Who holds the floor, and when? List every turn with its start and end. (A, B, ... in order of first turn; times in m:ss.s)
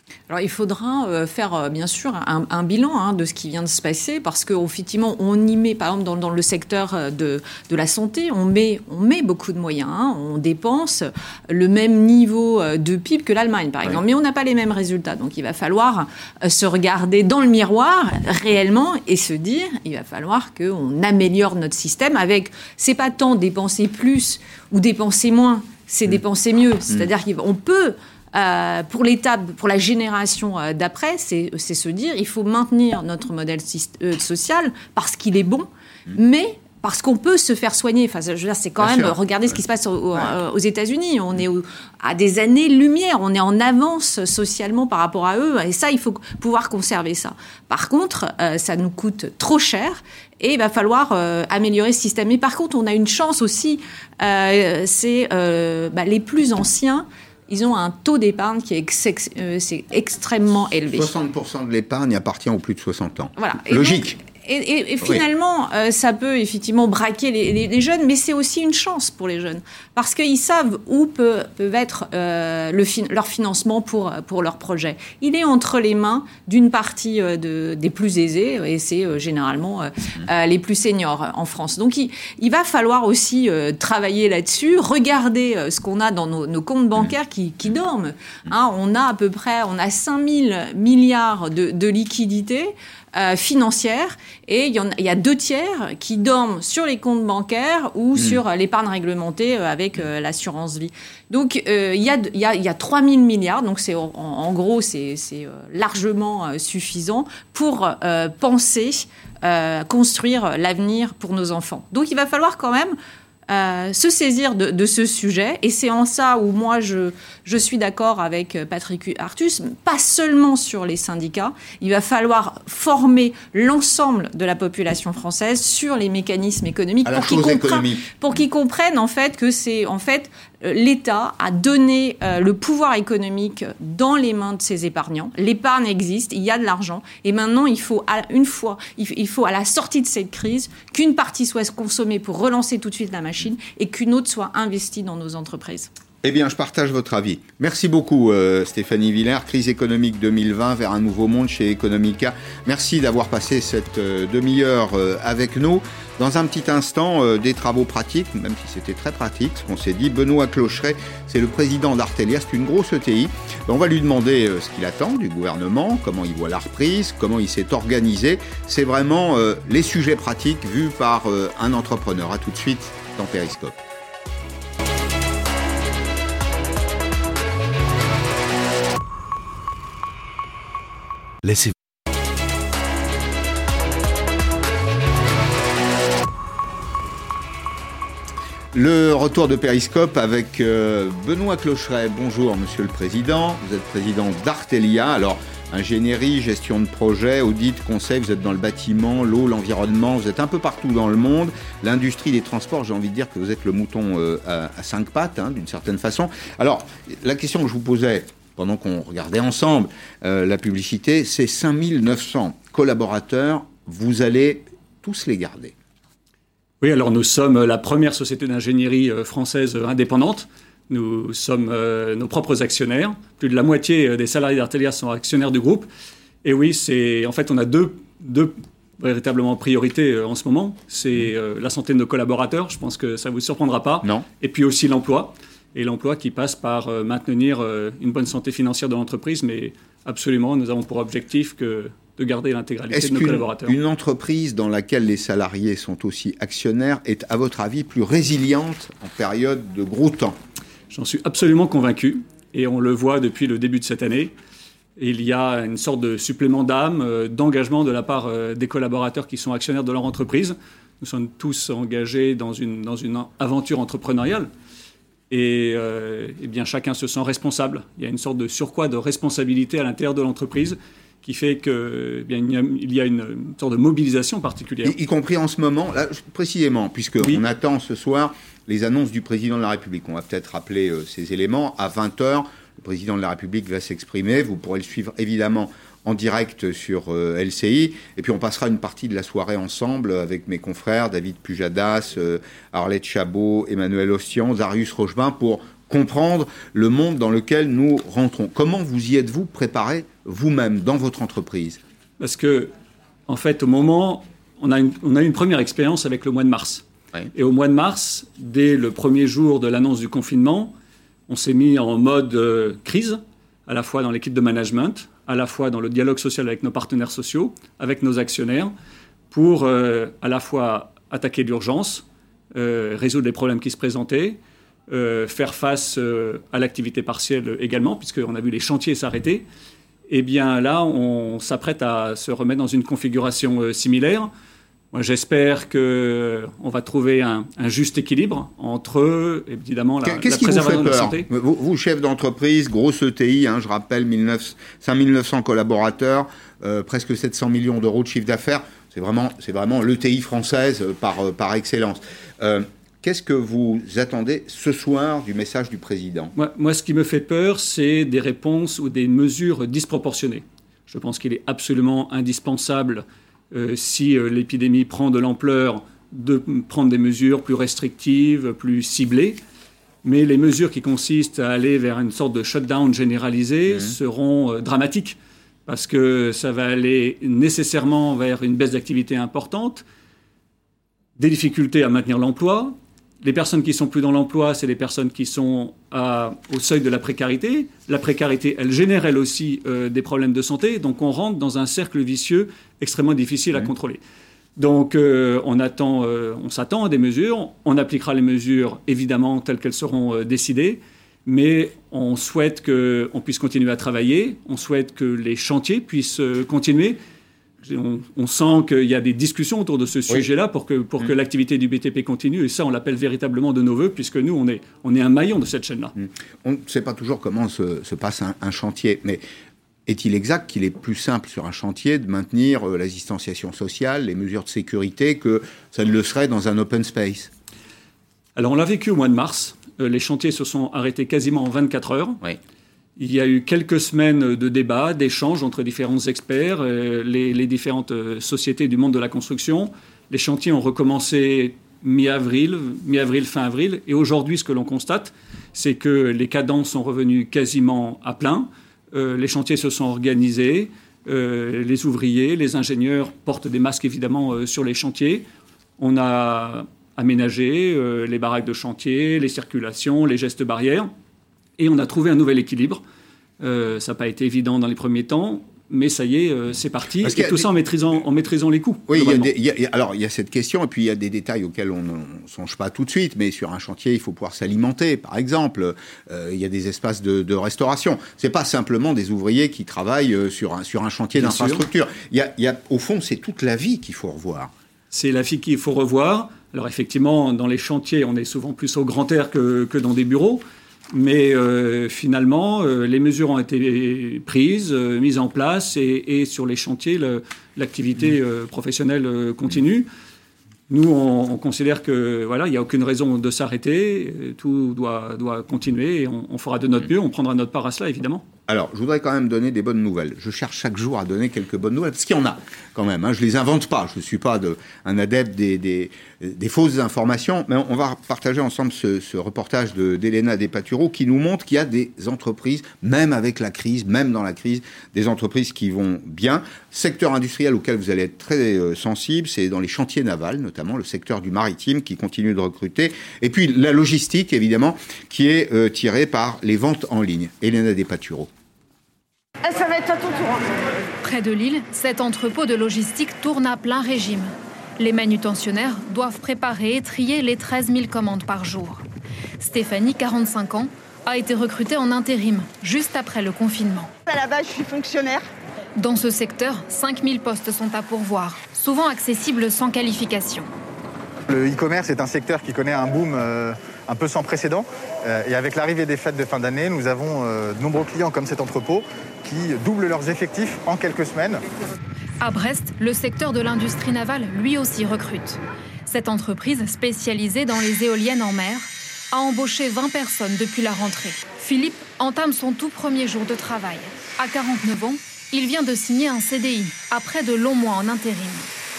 0:00.3-1:01.1 A
0:38.8-0:39.1 B
1:00.9-1:04.2 B
1:03.4-1:53.0 A
1:53.5-2:25.9 A
2:07.0-2:08.1 B
2:26.2-2:53.8 B
3:08.7-3:35.7 B
3:36.8-3:45.9 C
3:46.4-4:03.8 C
4:02.9-4:10.4 B
4:10.9-4:14.3 C
4:15.0-4:24.5 C
4:25.3-4:35.0 C
4:34.8-5:01.8 B
5:02.2-5:02.7 C
5:03.3-5:10.7 C
5:11.3-5:18.7 C
5:19.3-5:29.4 C
5:30.1-5:34.3 C
5:34.9-5:41.2 C
5:40.0-5:56.3 B
5:56.4-6:09.4 C
6:10.0-6:19.8 C
6:21.2-6:34.0 C
6:34.6-6:47.0 C
6:47.6-6:55.9 C
6:56.0-6:59.2 B
6:59.8-7:07.3 B
7:08.3-7:12.2 C
7:13.0-7:35.2 C
7:35.8-7:40.9 C
7:41.6-7:42.8 C
7:43.4-7:49.3 C
7:47.0-7:47.5 B
7:48.9-8:04.5 B
8:01.2-8:01.6 C
8:04.9-8:19.9 C
8:20.7-8:28.2 C
8:28.5-8:58.3 B
8:59.4-9:00.4 D
9:01.0-9:08.8 E
9:09.4-9:13.9 E
9:14.1-9:15.2 D
9:15.8-9:20.5 E
9:21.3-9:31.4 F
9:32.2-9:48.5 E